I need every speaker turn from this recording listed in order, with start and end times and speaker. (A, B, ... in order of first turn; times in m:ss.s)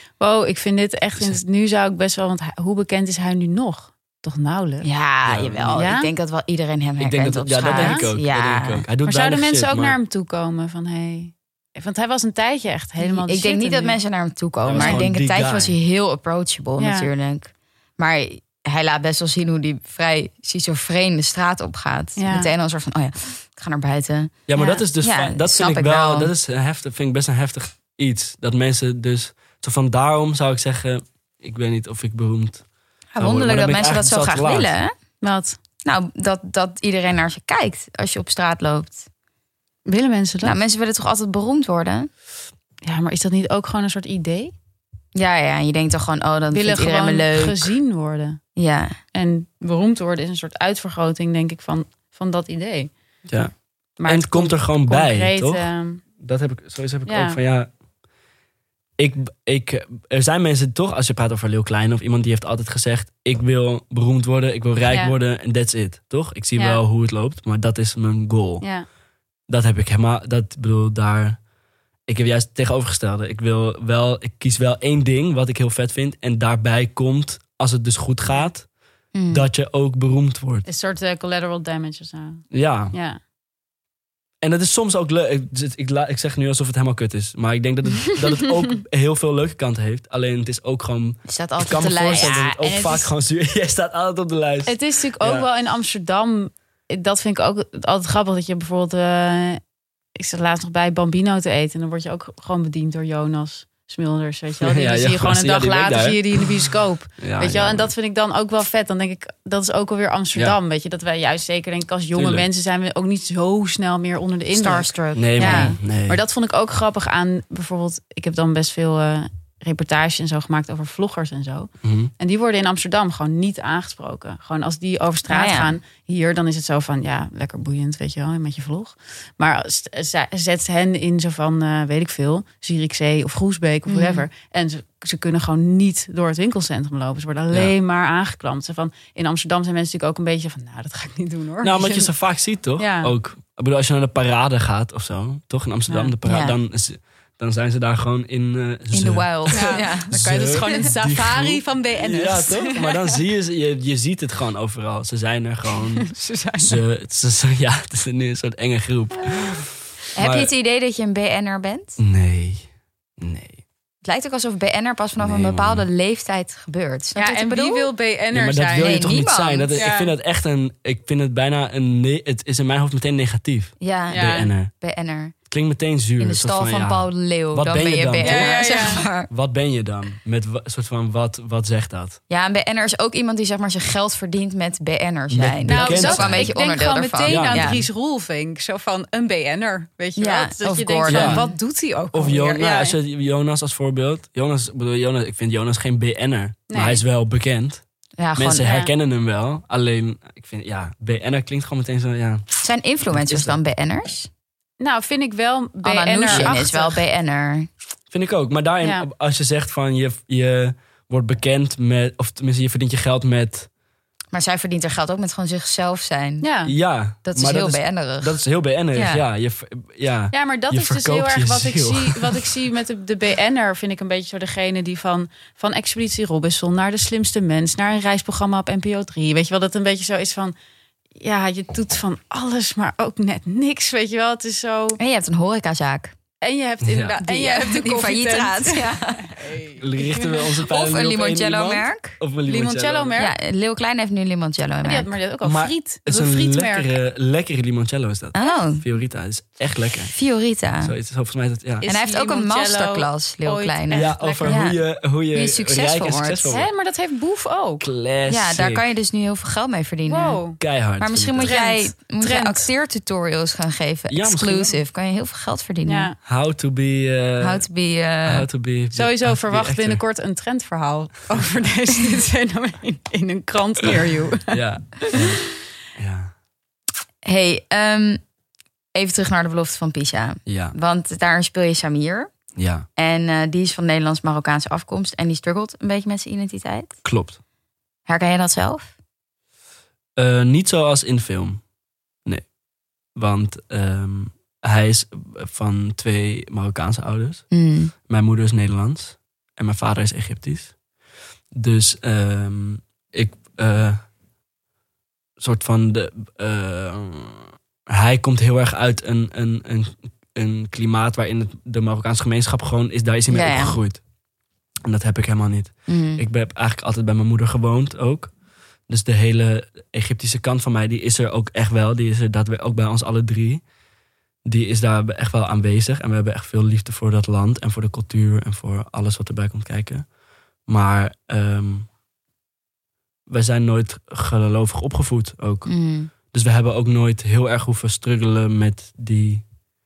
0:00.2-0:04.9 A
0:04.8-0:08.8 B
0:05.2-0:05.9 C
0:05.7-0:06.1 A
0:07.0-0:10.0 C
0:07.7-0:08.0 A
0:09.0-0:14.0 A
0:13.0-0:26.3 B
0:14.6-0:15.8 C
0:14.7-0:15.0 A
0:16.8-0:17.1 A
0:22.2-0:22.5 A
0:24.5-0:32.6 C
0:33.1-0:34.9 B
0:33.2-0:34.7 C
0:35.2-0:35.6 A
0:35.8-0:39.0 B
0:39.9-0:40.6 A
0:40.4-0:42.1 B
0:42.8-0:44.5 A
0:45.1-0:47.8 B
0:46.5-0:48.4 A
0:48.6-0:49.0 B
0:49.1-0:52.9 A
0:53.3-0:53.5 C
0:54.0-0:56.0 A
0:54.0-0:55.6 C
0:56.2-0:57.7 C
0:57.0-0:57.4 A
0:59.0-1:08.6 C
1:04.9-1:05.1 A
1:06.6-1:06.8 A
1:08.6-1:08.8 A
1:09.5-1:11.4 C
1:12.1-1:18.7 C
1:19.1-1:19.4 B
1:19.3-1:20.6 C
1:20.6-1:23.2 A
1:22.5-1:22.9 C
1:24.4-1:35.5 C
1:31.3-1:33.0 B
1:32.6-1:33.1 A
1:34.6-1:39.6 A
1:40.2-2:22.1 A
1:44.6-1:46.6 C
1:47.2-1:47.9 C
1:52.1-1:52.5 C
1:54.5-1:55.7 B
1:55.1-1:56.2 C
2:01.8-2:02.1 C
2:05.3-2:05.7 B
2:13.9-2:14.3 B
2:21.6-2:40.5 C
2:22.8-2:23.1 A
2:25.9-2:26.1 A
2:26.2-2:26.5 B
2:28.9-2:30.9 B
2:29.5-2:33.1 A
2:35.9-2:36.8 A
2:40.2-2:42.0 B
2:42.0-2:42.6 C
2:43.2-2:43.6 C
2:44.0-2:47.9 B
2:45.2-2:45.8 C
2:47.2-2:49.2 A
2:48.3-2:54.7 C
2:48.8-2:49.8 B
2:49.7-2:50.1 A
2:53.8-2:55.4 B
2:54.1-2:54.5 A
2:55.5-3:02.2 C
2:56.2-2:59.3 B
2:58.2-2:59.0 A
3:02.3-3:07.8 B
3:05.3-3:06.5 C
3:05.7-3:13.0 A
3:07.2-3:07.8 C
3:10.2-3:11.5 B
3:11.1-3:11.5 C
3:12.1-3:17.8 C
3:16.7-3:17.0 A
3:18.2-3:18.7 B
3:18.4-3:22.4 C
3:18.6-3:18.9 A
3:22.6-3:24.3 B
3:23.1-3:23.6 C
3:24.8-3:27.0 A
3:25.8-3:27.7 B
3:26.3-3:26.6 C
3:28.1-3:33.7 C
3:28.8-3:29.1 A
3:34.3-3:36.5 B
3:36.4-3:36.7 A
3:36.6-3:42.4 C
3:37.2-3:38.4 B
3:38.9-3:39.2 B
3:40.3-3:50.5 A
3:51.2-3:55.0 A
3:55.0-3:56.1 B
3:56.4-4:00.3 A
3:56.8-3:57.2 C
3:57.2-3:59.4 B
3:59.8-4:03.2 C
4:00.5-4:02.2 B
4:02.5-4:03.3 A
4:03.2-4:05.1 B
4:04.8-4:06.9 A
4:05.4-4:10.1 C
4:08.3-4:08.8 B
4:10.1-4:10.9 B
4:10.8-4:11.8 C
4:11.8-4:14.7 A
4:11.8-4:14.8 B
4:13.9-4:16.7 C
4:15.3-4:16.6 B
4:16.5-4:17.8 A
4:17.8-4:18.8 C
4:18.3-4:20.4 B
4:20.1-4:20.6 A
4:20.6-4:21.6 C
4:21.0-4:26.1 B
4:21.4-4:22.7 A
4:24.1-4:24.8 C
4:25.8-4:26.1 A
4:26.2-4:27.6 C
4:27.4-4:28.5 B
4:28.2-4:30.0 C
4:28.9-4:35.2 A
4:34.5-4:36.3 C
4:37.2-4:38.2 B
4:38.9-4:42.3 B
4:40.4-4:40.7 C
4:42.6-4:42.9 C
4:43.0-4:47.0 B
4:47.0-4:47.4 C
4:48.1-4:48.9 B
4:50.2-4:51.6 C
4:53.1-4:57.5 C
4:57.5-4:57.9 B
4:58.1-5:00.7 C
5:01.5-5:04.0 C
5:05.4-5:14.0 C
5:13.3-5:13.8 B
5:14.8-5:18.3 C
5:15.9-5:16.2 B
5:18.9-5:23.6 C
5:24.4-5:30.1 C
5:30.7-5:31.9 C
5:33.3-5:35.7 C
5:35.6-5:36.1 B
5:36.3-5:39.4 C